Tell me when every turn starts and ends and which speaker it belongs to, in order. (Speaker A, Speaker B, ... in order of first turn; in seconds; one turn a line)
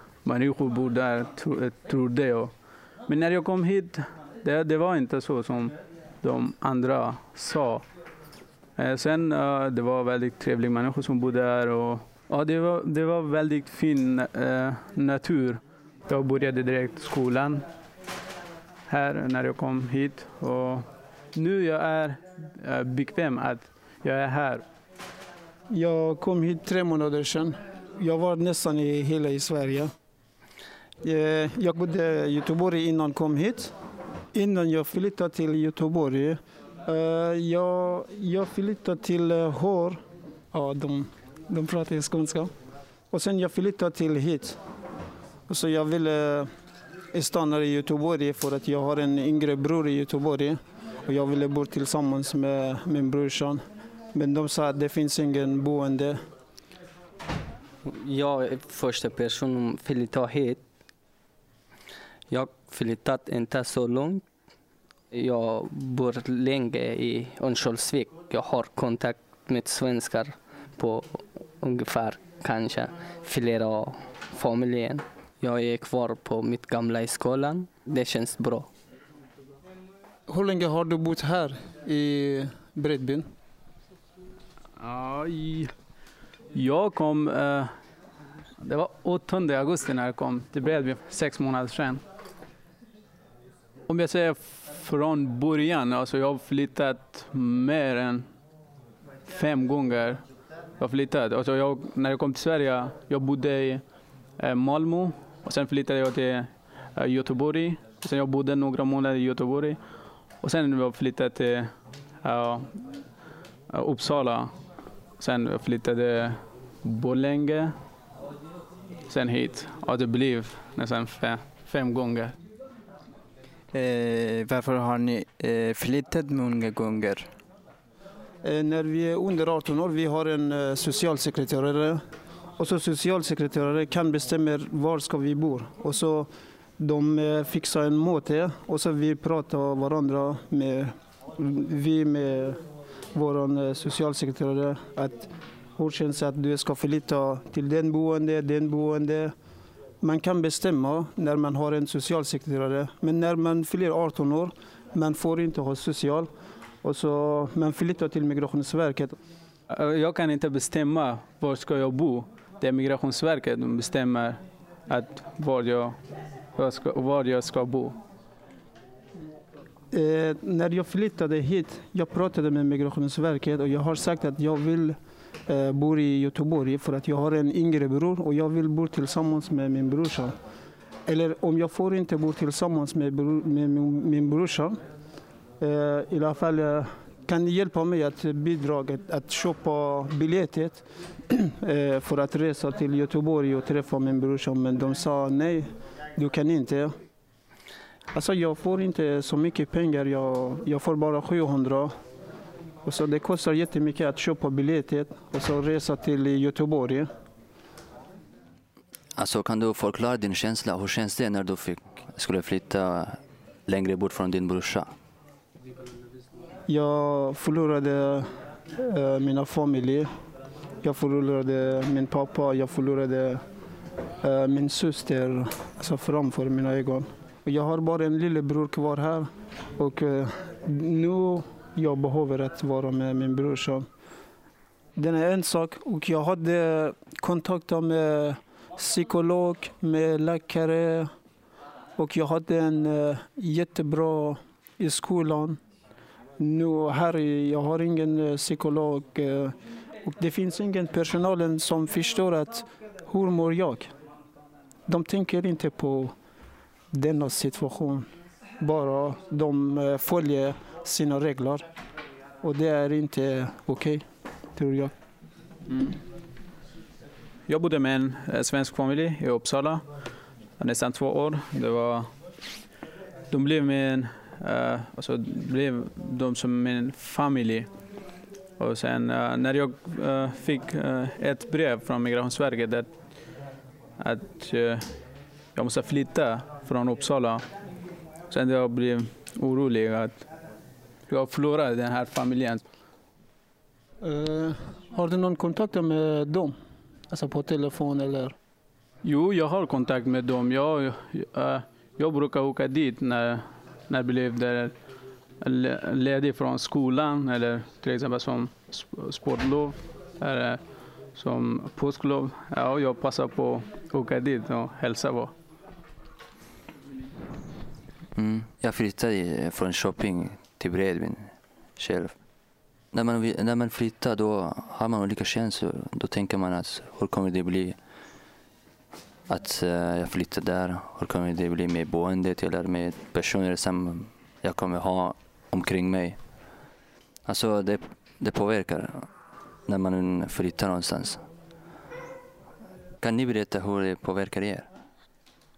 Speaker A: 0.2-2.5
Speaker A: 3.1-7.8
Speaker A: 8.8-17.6
Speaker A: 18.9-24.6
Speaker B: 25.7-29.9
Speaker B: 31.0-33.7
Speaker B: 34.3-40.0
Speaker B: 40.5-42.5
Speaker B: 43.1-44.6
Speaker B: 45.5-46.5
Speaker B: 47.1-53.6
Speaker B: 54.1-56.2
Speaker C: 57.9-60.6
Speaker C: 62.3-64.2
Speaker C: 65.1-78.7
Speaker B: 80.3-83.3
Speaker A: 84.8-85.7
Speaker A: 86.5-87.7
Speaker A: 88.6-92.0
Speaker A: 93.9-98.3
Speaker A: 99.3-100.2
Speaker A: 100.8-103.8
Speaker A: 104.4-109.8
Speaker A: 110.4-111.7
Speaker A: 112.2-113.0
Speaker A: 113.7-114.5
Speaker A: 115.2-117.8
Speaker A: 119.1-122.4
Speaker D: 123.7-127.3
Speaker B: 128.4-132.0
Speaker B: 132.6-136.3
Speaker B: 136.8-142.6
Speaker B: 143.1-149.3
Speaker B: 150.0-156.3
Speaker B: 156.8-159.2
Speaker A: 159.7-166.0
Speaker A: 166.6-168.0
Speaker B: 169.9-175.0
Speaker B: 175.5-180.3
Speaker B: 181.1-184.8
Speaker B: 185.6-196.9
Speaker B: 198.1-201.9
Speaker B: 202.8-207.1
Speaker E: 209.2-214.9
Speaker B: 216.7-218.2
Speaker B: 218.8-220.1
Speaker B: 220.8-223.4
Speaker B: 224.2-233.8
Speaker B: 235.0-241.1
Speaker B: 242.0-245.6
Speaker B: 246.4-249.5
Speaker B: 250.1-253.9
Speaker B: 254.9-256.1
Speaker B: 256.9-258.1
Speaker B: 258.6-261.6
Speaker B: 262.4-264.0
Speaker B: 264.6-264.9
Speaker A: 267.5-269.8
Speaker A: 270.6-272.1
Speaker A: 273.3-277.7
Speaker A: 278.6-282.9
Speaker A: 284.0-284.9
Speaker A: 285.6-287.4
Speaker A: 288.3-290.3
Speaker A: 291.1-292.6
Speaker B: 294.0-296.5
Speaker B: 297.1-298.3
Speaker A: 299.0-304.7
Speaker A: 305.4-310.6
Speaker A: 311.1-315.3
Speaker E: 318.2-322.2
Speaker E: 322.9-327.8
Speaker E: 329.3-336.2
Speaker E: 337.3-339.1
Speaker E: 339.7-341.2
Speaker E: 343.0-344.7